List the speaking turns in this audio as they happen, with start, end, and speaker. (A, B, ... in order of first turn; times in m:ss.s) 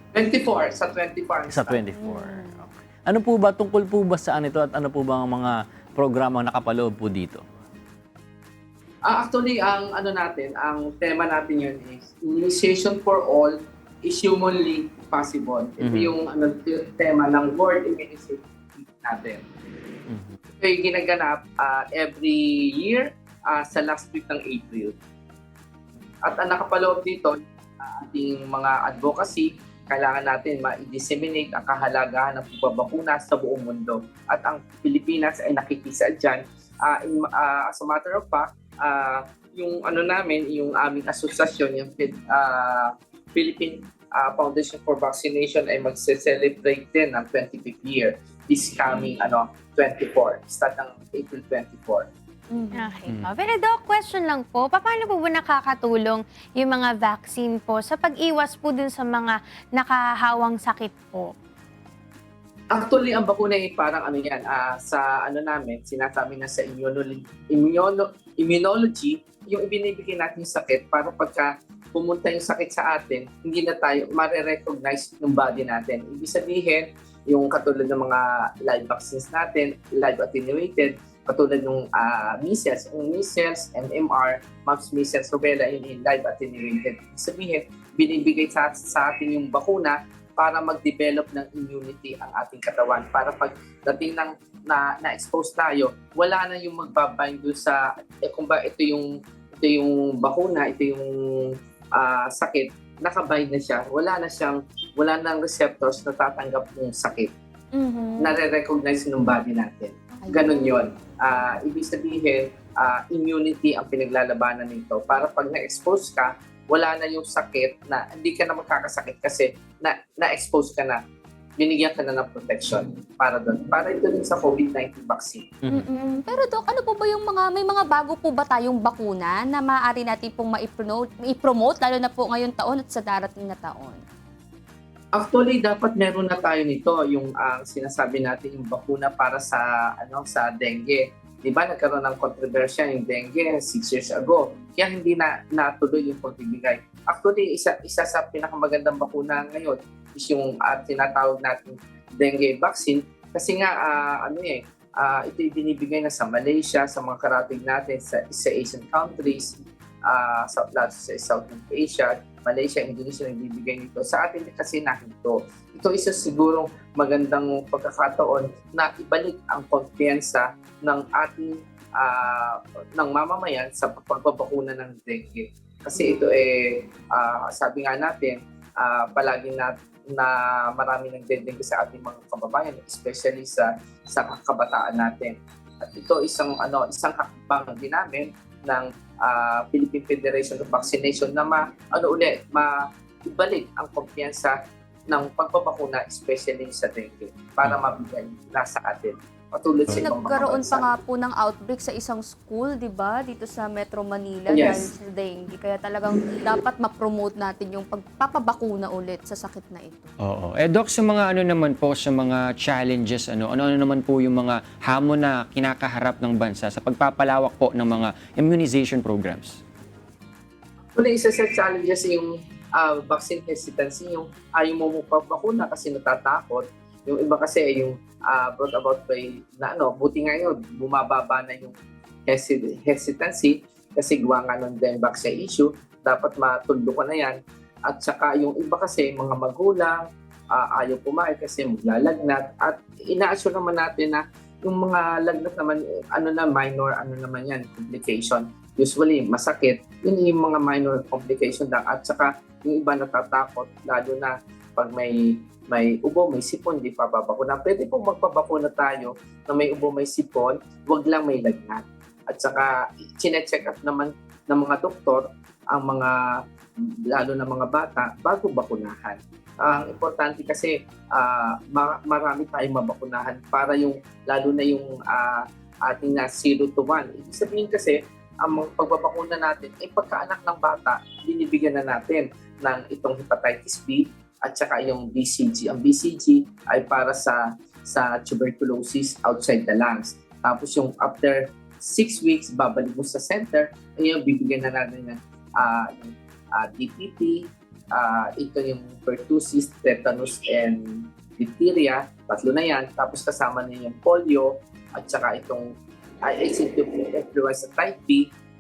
0:00.1-0:01.8 A
0:01.5-0:07.4 B
0:02.0-0:02.4 C
0:09.1-0:19.4 A
0:15.8-0:16.2 B
0:20.1-0:20.4 B
0:20.5-0:25.0 A
0:26.2-0:52.1 A
0:52.7-1:01.3 D
1:02.7-1:47.3 A
1:47.7-1:48.3 C
1:48.2-2:01.0 A
1:50.2-1:50.8 C
2:01.6-2:05.5 A
2:05.7-2:14.0 C
2:15.2-3:14.6 A
3:15.1-3:20.9 A
3:19.9-3:30.1 C
3:24.5-3:24.9 A
3:30.2-3:39.6 E
3:41.0-3:51.8 A
3:52.3-4:26.2 A
4:26.8-5:05.7 A
5:06.2-5:08.3 A